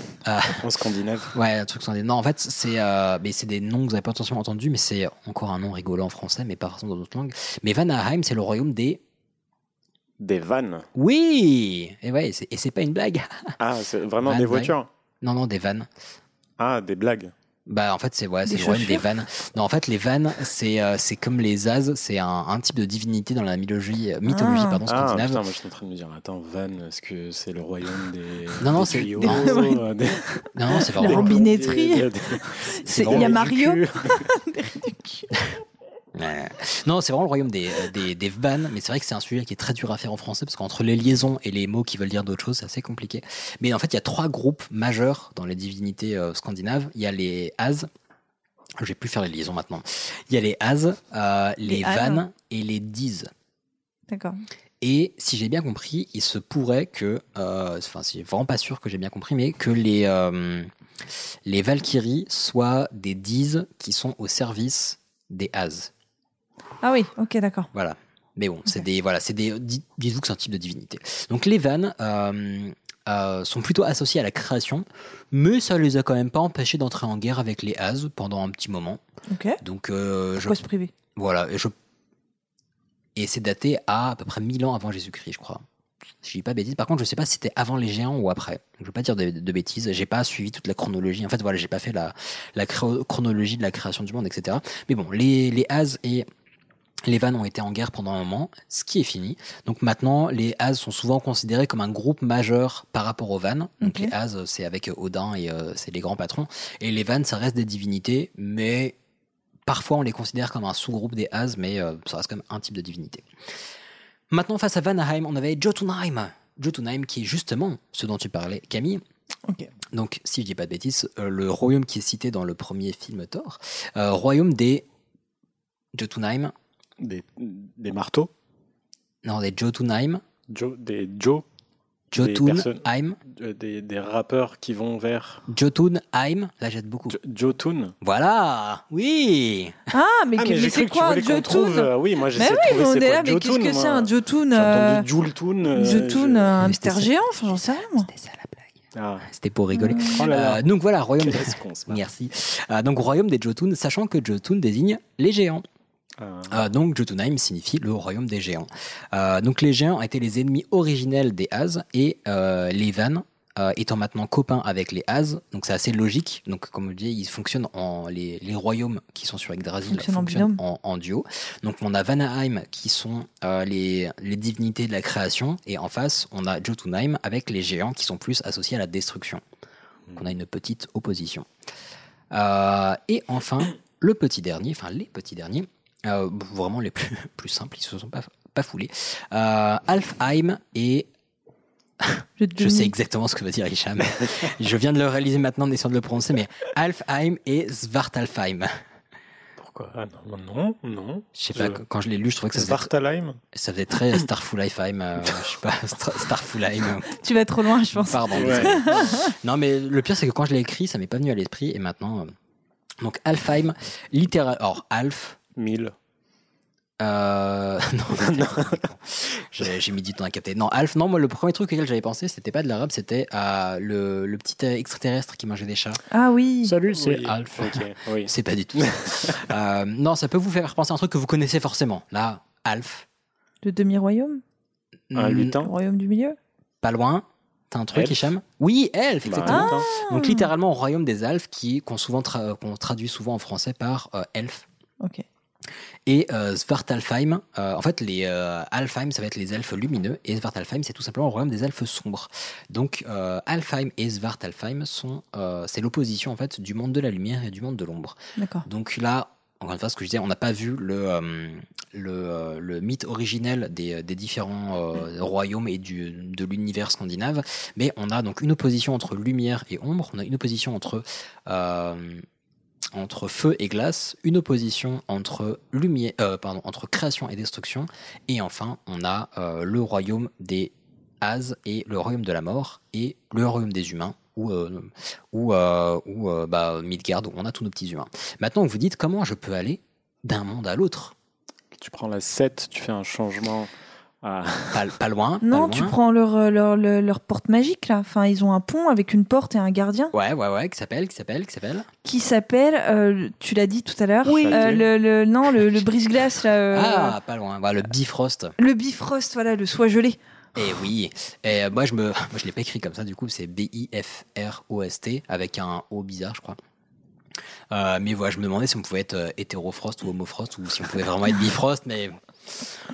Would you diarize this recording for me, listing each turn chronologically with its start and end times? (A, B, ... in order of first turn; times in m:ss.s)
0:00.2-0:00.6 A
0:00.5-0:01.3 B
0:01.3-0:09.0 A
0:10.2-0:10.9 B
0:10.9-0:13.5 A
0:13.6-0:14.9 B
0:14.2-0:15.9 A
0:16.6-0:17.3 B
0:17.6-0:25.4 A
0:18.5-0:19.0 C
0:24.3-0:24.8 C
0:24.8-0:34.3 B
0:28.6-0:29.6 A
0:29.2-0:29.8 C
0:30.5-0:31.4 A
0:30.7-0:35.3 C
0:32.9-0:33.4 A
0:36.1-0:47.9 A
0:48.8-0:53.3 A
0:51.6-0:52.2 C
0:54.1-0:54.4 C
0:54.8-1:00.7 A
1:01.4-1:05.9 A
1:06.8-1:07.7 C
1:07.7-1:19.0 A
1:19.3-1:19.6 C
1:19.6-1:20.6 A
1:20.4-1:20.9 C
1:21.1-1:21.7 A
1:23.2-1:25.6 A
1:26.2-1:36.3 A
1:37.0-1:49.0 A
1:43.8-1:44.1 C
1:49.6-1:53.2 A
1:54.3-1:59.0 A
1:59.9-2:04.8 A
2:05.9-2:06.5 A
2:07.0-2:08.3 B
2:09.2-2:10.2 A
2:10.5-2:11.4 B
2:12.1-2:13.2 A
2:12.1-2:15.4 B
2:15.5-2:17.2 A
2:17.1-2:17.9 B
2:18.0-2:19.8 A
2:19.9-2:25.1 C
2:20.4-2:26.6 B
2:25.7-2:28.1 C
2:26.6-2:28.7 A
2:28.9-2:29.3 B
2:29.2-2:35.6 A
2:29.7-2:30.2 C
2:29.9-2:30.6 B
2:31.2-2:32.0 B
2:36.2-2:36.6 B
2:36.5-2:59.4 A
2:49.9-2:50.6 C
3:00.1-3:01.5 A
3:02.3-3:11.1 A
3:12.0-3:18.7 A
3:12.4-3:12.9 C
3:19.6-3:21.8 B
3:21.3-3:22.9 A
3:22.5-3:23.4 B
3:23.5-3:27.2 A
3:27.2-3:29.3 C
3:27.9-3:32.3 A
3:28.3-3:29.2 B
3:33.0-3:35.4 A
3:35.6-3:35.9 B
3:37.0-3:46.0 A
3:38.1-3:38.8 B
3:46.1-3:46.7 C
3:46.6-3:49.4 B
3:46.9-3:53.0 A
3:53.6-3:54.4 C
3:55.1-3:55.6 A
3:55.1-3:55.7 B
3:55.6-3:56.4 C
3:56.8-4:04.7 A
3:57.9-3:58.3 B
3:59.2-3:59.9 B
3:59.5-4:00.5 C
4:06.0-4:32.2 A
4:18.4-4:18.6 C
4:32.9-4:51.1 A
4:51.8-4:53.7 B
4:54.2-4:54.9 B
4:54.7-4:55.9 A
4:55.4-5:00.1 C
5:00.1-5:01.9 A
5:02.0-5:07.1 C
5:04.2-5:04.8 B
5:04.4-5:04.8 A
5:06.7-5:08.5 A
5:08.6-5:10.2 C
5:10.5-5:16.6 A
5:17.7-5:22.7 A